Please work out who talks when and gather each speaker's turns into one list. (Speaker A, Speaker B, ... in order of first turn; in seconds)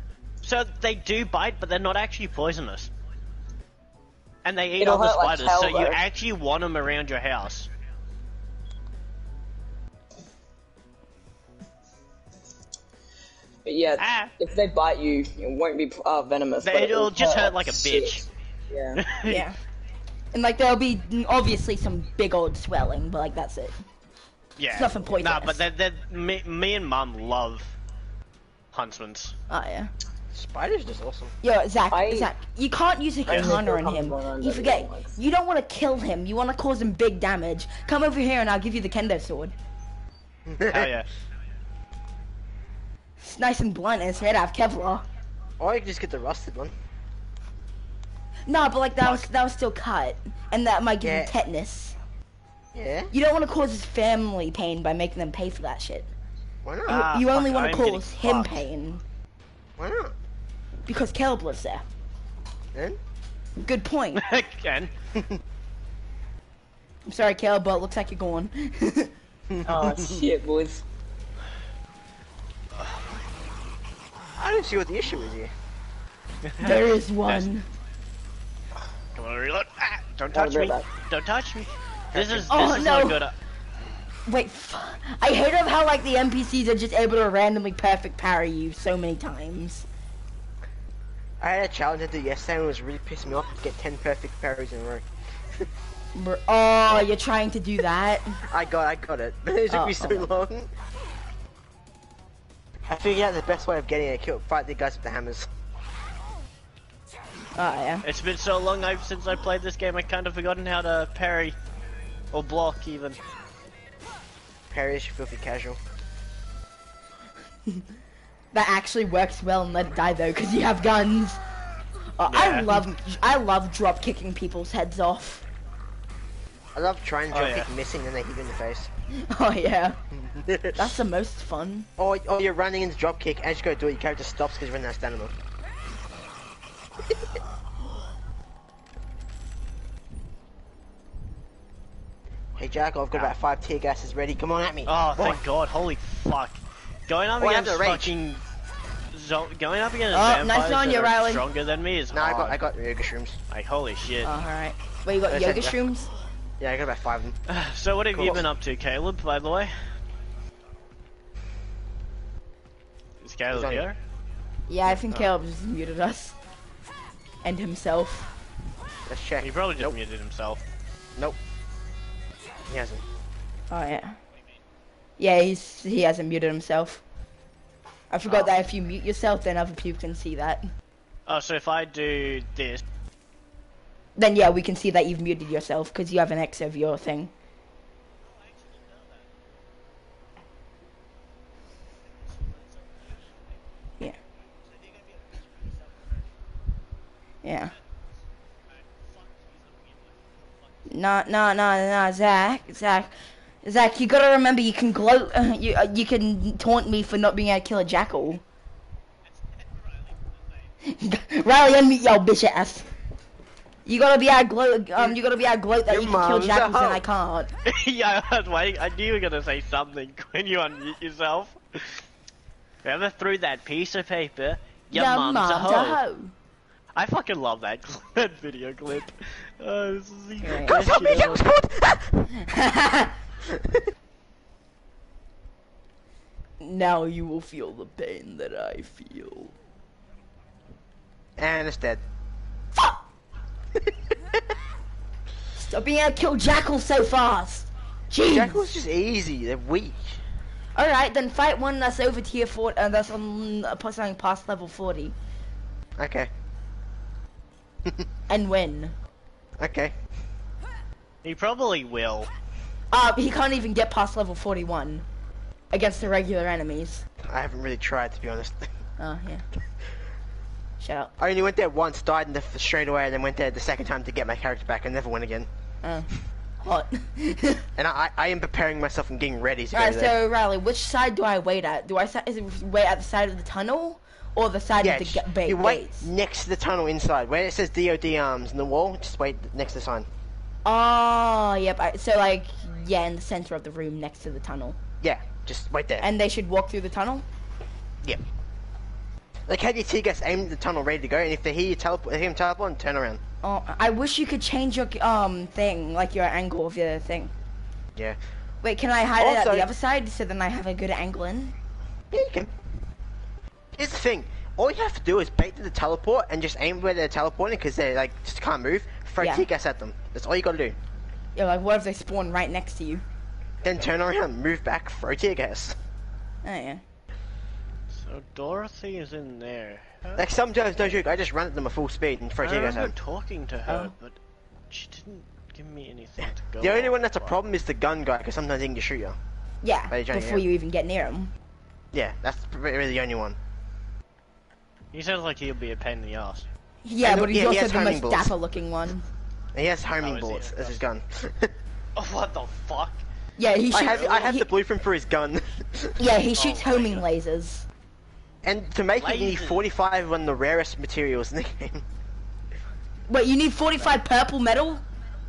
Speaker A: 0.4-2.9, 4.4-7.7, 14.0-14.3, 16.6-18.3, 18.9-19.4, 24.6-27.7, 28.7-29.3, 40.7-41.1, 56.9-58.6, 64.1-64.9, 72.8-73.1, 76.4-77.5, 79.1-83.3, 108.0-111.5, 112.3-113.2, 122.3-122.7, 127.3-127.7, 144.8-148.4, 149.1-152.6, 153.5-154.3, 157.5-159.8, 163.2-164.0, 169.4-170.6, 178.3-178.5, 181.3-182.8, 217.6-222.0, 222.8-226.0, 226.9-231.4, 261.2-262.3, 327.9-330.3, 332.4-334.2, 334.7-337.4, 344.9-346.5, 350.0-350.8, 351.9-353.0, 353.7-354.1, 356.4-357.1, 359.0-359.6
Speaker B: 4.8-6.0, 13.6-19.5, 31.9-32.3, 33.2-35.1, 69.6-70.8, 80.3-80.9
Speaker C: 19.3-19.5, 20.3-23.8, 24.7-25.6, 29.5-29.9, 31.4-39.5, 43.2-45.0, 48.5-52.0, 53.1-56.1, 56.9-59.0, 60.9-61.9, 63.6-64.2, 67.1-69.1, 76.6-77.6, 82.5-83.2, 84.3-89.8, 96.1-98.4, 99.7-100.3, 107.5-108.0, 118.5-121.4, 122.2-125.4, 129.1-130.0, 130.7-131.9, 150.1-151.4, 154.2-156.1, 164.7-166.3, 167.4-168.3, 173.7-174.2, 175.2-177.0, 178.1-180.7, 184.2-187.3, 197.4-197.7, 200.9-203.1, 203.6-208.4, 210.8-212.9, 213.8-217.5, 224.9-226.3, 230.4-230.7, 232.3-233.1, 236.6-239.5, 242.7-243.0, 245.5-248.6, 250.7-255.1, 258.3-258.9, 262.9-265.1, 265.7-267.0, 269.0-269.4, 270.8-271.1, 275.8-276.1, 276.6-277.7, 279.7-286.1, 290.6-294.8, 296.0-297.2, 303.4-307.3, 308.6-311.5, 319.2-319.4, 321.3-323.0, 326.4-326.8, 339.6-341.3, 346.8-349.1, 353.4-354.5, 356.0-357.6, 363.1-364.8
Speaker D: 30.3-31.3, 40.5-41.0, 45.6-46.7, 51.0-51.3, 52.7-53.1, 56.6-57.0, 59.8-60.1, 69.5-70.2, 74.3-75.5, 82.1-82.5, 91.4-95.7, 98.5-100.7, 102.8-105.5, 114.7-115.8, 126.7-128.9, 130.1-130.9, 132.0-135.3, 142.6-145.4, 147.4-148.1, 152.1-153.4, 155.3-155.8, 156.6-157.4, 158.1-158.4, 163.5-163.8, 164.8-165.3, 169.1-169.9, 172.7-173.0, 215.9-217.0, 230.6-232.3, 233.5-233.8, 241.4-242.0, 243.8-244.4, 248.2-250.2, 256.0-256.3, 259.6-259.9, 267.2-268.7, 271.2-275.5, 277.8-280.1, 284.8-290.1, 295.0-296.1, 299.5-303.2, 309.2-309.7, 312.1-312.5, 313.7-320.8, 323.6-325.8, 330.1-332.9, 336.2-339.2, 339.9-340.4, 341.9-343.4, 347.0-348.3, 349.5-351.5, 353.7-356.0, 358.4-361.8